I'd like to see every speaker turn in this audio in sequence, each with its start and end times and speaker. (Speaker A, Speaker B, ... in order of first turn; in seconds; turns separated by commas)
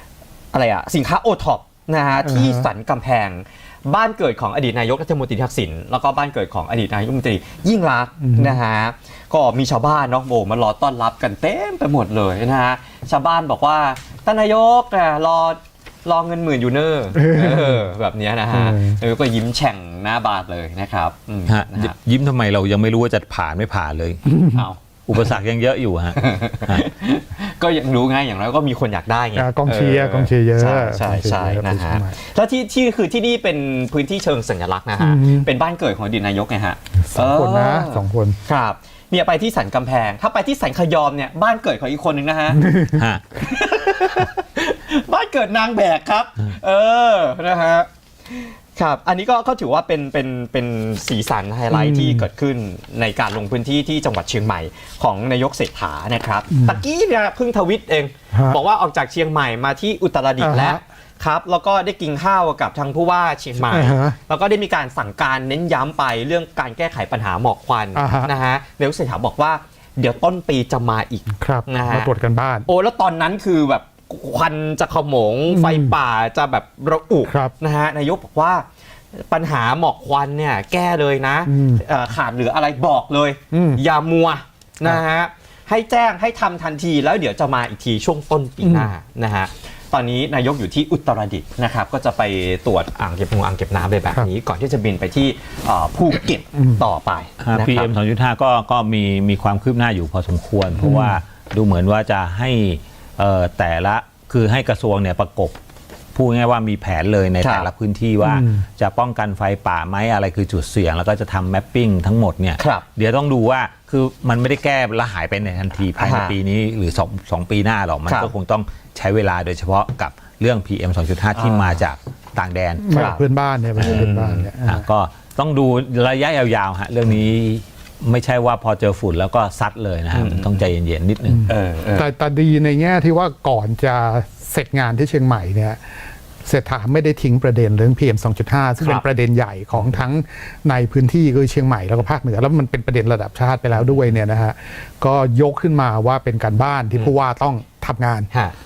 Speaker A: 0.5-21.9, Speaker B: 2.2-2.7, Speaker B: 8.2-8.6, Speaker B: 17.1-17.8, Speaker B: 18.5-19.0, Speaker C: 21.5-24.2, Speaker B: 24.3-24.6, Speaker A: 24.5-24.8, Speaker C: 25.1-26.8, Speaker A: 26.1-42.7, Speaker B: 29.3-32.1, Speaker B: 35.0-35.5, Speaker B: 37.0-38.4, Speaker B: 42.6-43.0, Speaker C: 42.9-43.2, Speaker A: 43.4-72.1, Speaker B: 51.7-52.2, Speaker B: 56.5-56.8, Speaker B: 58.3-58.6, Speaker B: 60.4-60.8, Speaker B: 63.6-64.2, Speaker B: 67.9-68.3, Speaker B: 71.3-72.7, Speaker A: 72.7-78.7, Speaker B: 75.5-75.9, Speaker B: 77.2-77.5, Speaker A: 79.2-97.9, Speaker B: 81.5-81.8, Speaker B: 83.5-83.8, Speaker B: 88.6-88.9, Speaker B: 96.6-96.8, Speaker C: 97.4-105.5, Speaker B: 100.8-101.2, Speaker C: 106.1-122.9, Speaker A: 107.4-107.7, Speaker B: 108.2-108.7, Speaker A: 112.6-112.8, Speaker A: 116.0-116.4, Speaker A: 118.0-118.3, Speaker A: 121.3-121.8, Speaker B: 122.8-124.8, Speaker A: 122.9-123.2, Speaker C: 123.8-124.1, Speaker A: 123.8-124.5, Speaker C: 124.6-131.4, Speaker A: 130.1-130.7, Speaker B: 131.3-135.8, Speaker A: 131.5-132.1, Speaker B: 136.4-148.3, Speaker A: 139.7-140.0, Speaker A: 143.7-144.2